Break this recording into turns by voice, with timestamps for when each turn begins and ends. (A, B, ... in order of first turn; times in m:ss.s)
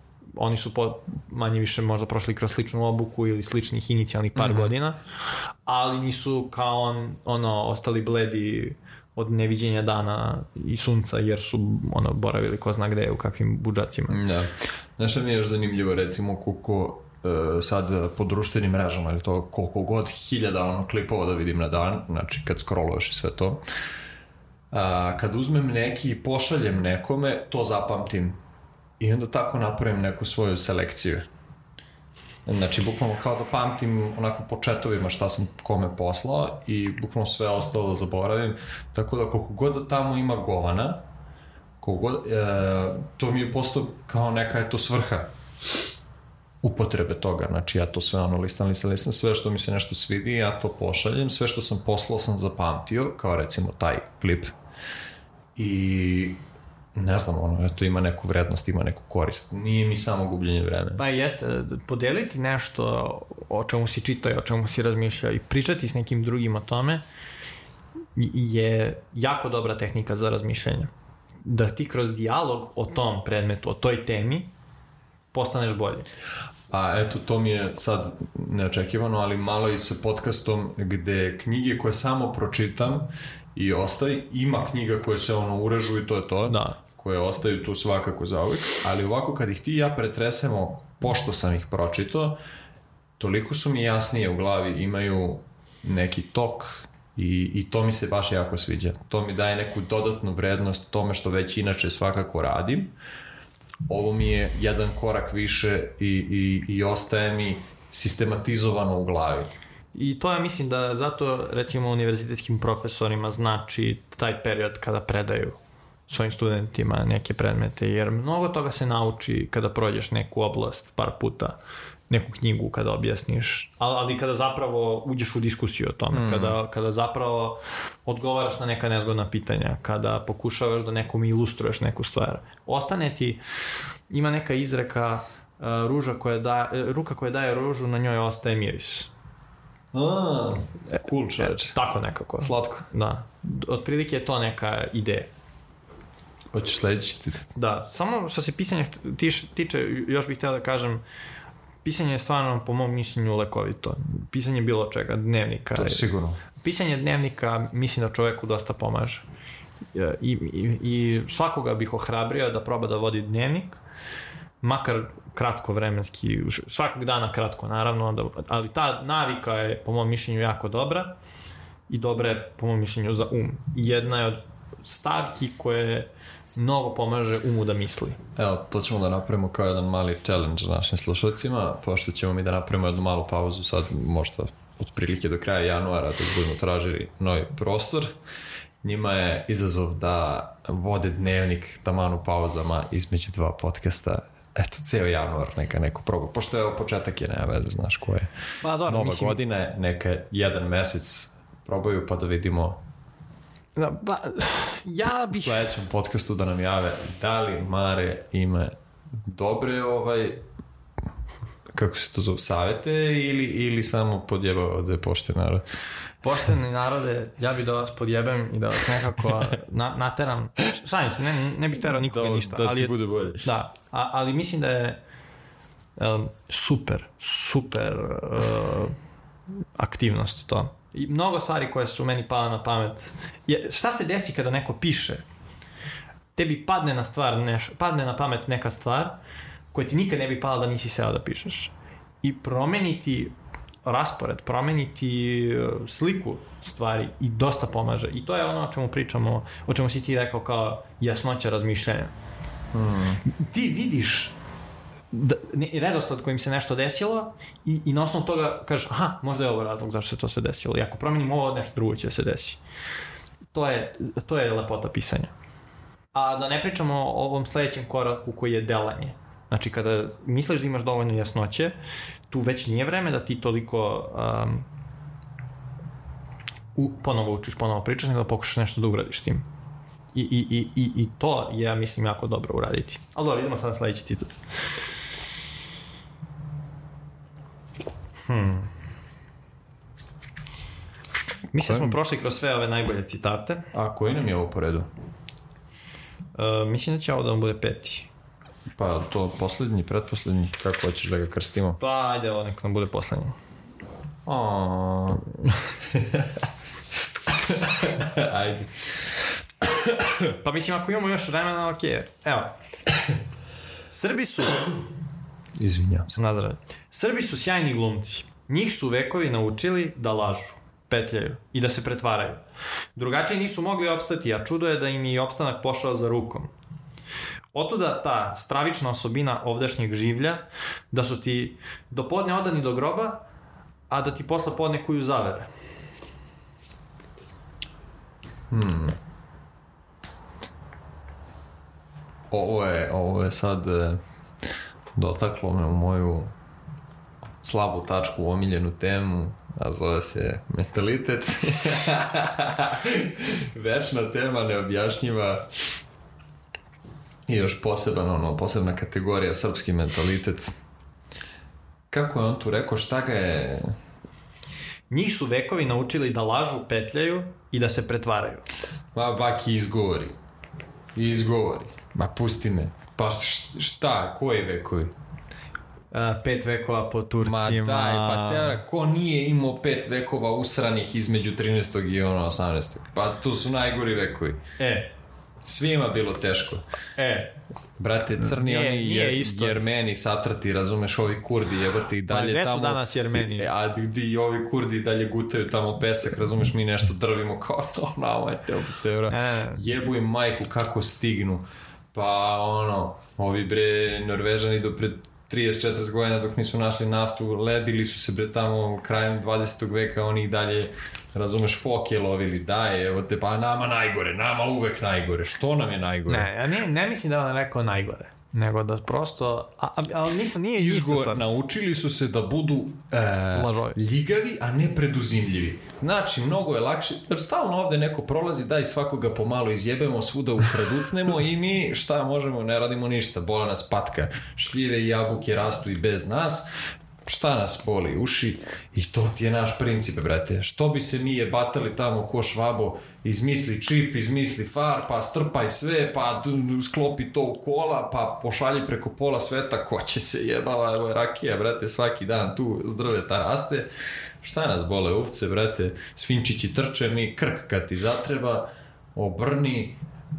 0:00.3-0:14.2 A
0:04.4-0:04.7 B
0:14.1-0:23.6 B
0:24.7-0:28.4 B
0:29.0-0:31.3 B
0:32.4-0:41.0 B
0:41.8-0:45.3 B
0:46.6-0:54.5 B
0:55.6-0:56.4 B
0:56.9-1:01.0 B
1:01.0-1:07.0 A
1:08.1-1:10.9 A
1:11.4-1:14.5 A
1:15.3-1:16.1 A
1:16.7-1:32.4 B
1:26.5-1:26.8 A
1:33.2-1:42.9 B
1:43.9-1:49.5 B
1:49.9-2:13.4 A
2:06.1-2:06.6 B
2:14.1-2:19.1 A
2:19.9-2:21.8 B
2:21.4-2:25.3 A
2:22.4-2:22.8 B
2:26.5-2:27.5 B
2:27.5-2:31.0 A
2:31.8-2:36.0 A
2:35.7-2:36.4 B
2:36.6-2:39.2 A
2:39.9-2:43.8 A
2:44.6-2:51.2 A
2:51.9-2:58.2 A
2:58.4-3:08.1 B
3:08.8-3:18.3 B
3:18.6-3:19.4 A
3:18.8-3:22.8 B
3:23.8-3:25.7 A
3:25.3-3:30.4 B
3:31.7-3:35.6 B
3:36.2-3:45.0 A
3:42.0-3:43.5 B
3:46.0-3:49.0 A
3:49.8-3:55.2 A
3:56.4-3:59.2 A
3:59.7-4:03.3 A
4:03.8-4:12.1 A
4:12.7-4:13.2 B
4:13.2-4:14.3 A
4:15.1-4:22.6 A
4:23.5-4:25.3 A
4:26.1-4:31.8 A
4:32.3-4:34.7 A
4:36.8-4:39.4 A
4:40.1-4:44.3 A
4:48.2-4:48.7 A
4:51.5-4:53.7 A
4:51.6-4:52.0 B
4:53.7-4:54.9 B
4:56.3-4:58.1 A
4:58.8-5:01.8 B
5:01.8-5:03.4 A
5:04.2-5:05.3 B
5:05.9-5:06.4 B
5:07.3-5:09.0 B
5:09.6-5:10.2 B
5:10.4-5:12.5 A
5:13.9-5:14.7 A
5:15.6-5:16.2 B
5:16.1-5:22.4 A
5:23.0-5:26.5 A
5:27.5-5:33.2 A
5:33.9-5:35.5 A
5:38.5-5:39.0 B
5:42.3-5:44.0 B
5:45.0-5:46.3 B
5:47.4-5:55.5 B
5:57.3-6:00.6 B
6:01.9-6:03.7 B
6:04.9-6:08.4 A
6:08.9-6:10.2 B
6:10.9-6:14.9 B
6:15.9-6:18.6 A
6:17.2-6:24.4 B
6:24.6-6:24.9 A
6:25.4-6:26.6 B
6:27.0-6:27.4 A
6:27.8-6:56.3 B
6:28.2-6:29.6 A
6:32.1-6:33.5 A
6:39.1-6:39.6 A
6:56.1-7:01.2 A
7:00.6-7:16.4 B
7:03.3-7:03.8 A
7:17.0-7:33.7 B
7:34.2-7:39.8 B